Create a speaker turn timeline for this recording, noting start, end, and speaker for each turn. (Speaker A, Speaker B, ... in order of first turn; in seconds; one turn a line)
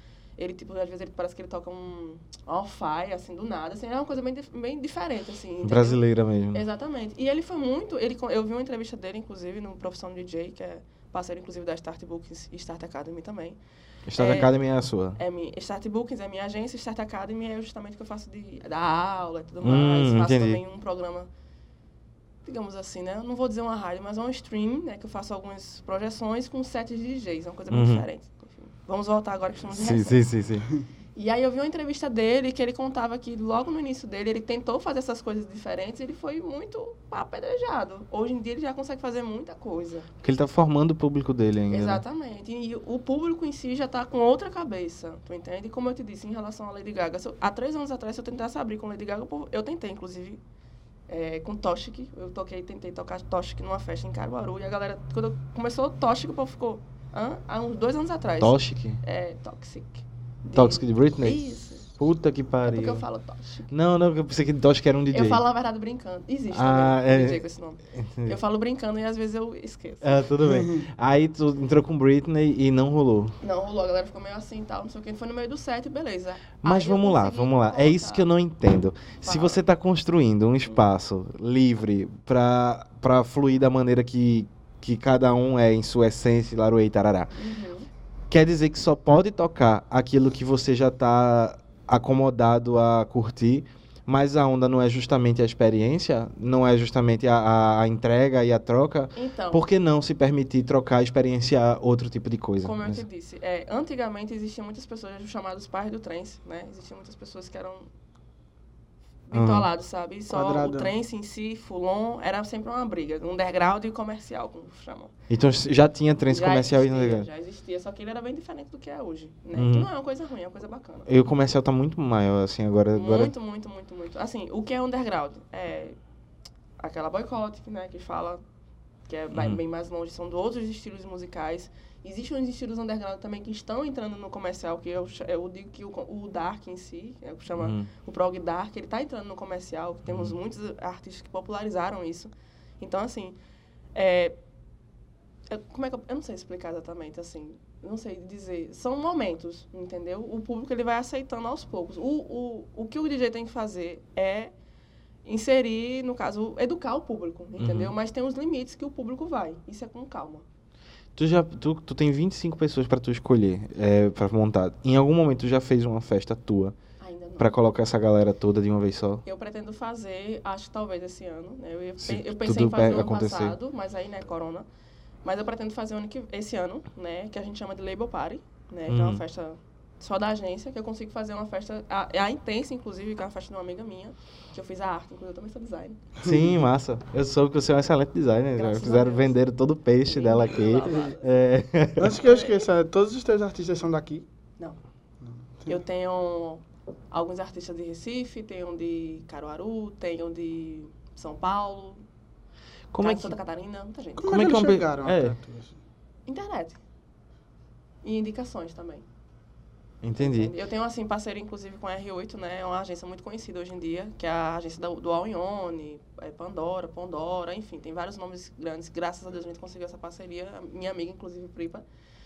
Speaker A: 0.4-13.6
Speaker B: 5.6-6.6
Speaker B: 14.1-15.2
Speaker A: 14.2-14.5
Speaker A: 15.2-21.3
Speaker B: 19.6-20.6
Speaker A: 22.4-30.2
Speaker B: 27.7-28.1
Speaker B: 29.7-30.7
Speaker A: 31.1-40.1
Speaker B: 40.2-42.0
Speaker A: 41.7-50.4
Speaker A: 51.1-61.9
Speaker B: 58.4-59.0
Speaker B: 60.5-61.4
Speaker B: 61.9-63.0
Speaker A: 62.6-63.7
Speaker B: 63.7-65.4
Speaker A: 65.1-70.3
Speaker B: 66.5-67.4
Speaker B: 67.9-68.4
Speaker B: 70.0-73.3
Speaker C: 70.4-70.8
Speaker A: 73.4-78.2
Speaker B: 76.6-87.3
Speaker A: 79.2-79.6
Speaker A: 87.3-87.9
Speaker B: 88.3-103.0
Speaker A: 99.2-99.6
Speaker A: 102.6-107.9
Speaker A: 109.3-115.1
Speaker B: 109.3-109.7
Speaker C: 110.3-110.9
Speaker B: 115.3-117.3
Speaker A: 116.3-121.1
Speaker B: 119.5-119.9
Speaker B: 121.1-123.3
Speaker A: 122.9-126.0
Speaker A: 126.8-128.4
Speaker A: 129.1-143.4
Speaker B: 129.3-129.6
Speaker B: 137.6-137.9
Speaker B: 140.1-140.3
Speaker A: 143.9-144.3
Speaker A: 145.5-154.5
Speaker A: 155.2-160.4
Speaker B: 157.6-157.9
Speaker B: 161.2-166.8
Speaker A: 167.0-167.6
Speaker B: 167.4-169.2
Speaker A: 169.2-174.7
Speaker B: 172.0-173.6
Speaker A: 175.2-186.0
Speaker B: 178.9-179.2
Speaker B: 186.2-192.2
Speaker C: 186.2-186.5
Speaker A: 188.5-189.4
Speaker A: 190.1-191.3
Speaker C: 192.0-194.2
Speaker A: 192.2-192.7
Speaker C: 195.2-195.7
Speaker A: 195.7-202.0
Speaker B: 202.9-203.4
Speaker A: 203.0-204.4
Speaker C: 204.2-205.8
Speaker B: 204.3-205.3
Speaker A: 206.3-206.8
Speaker A: 208.0-209.0
Speaker B: 210.0-210.5
Speaker A: 210.2-221.8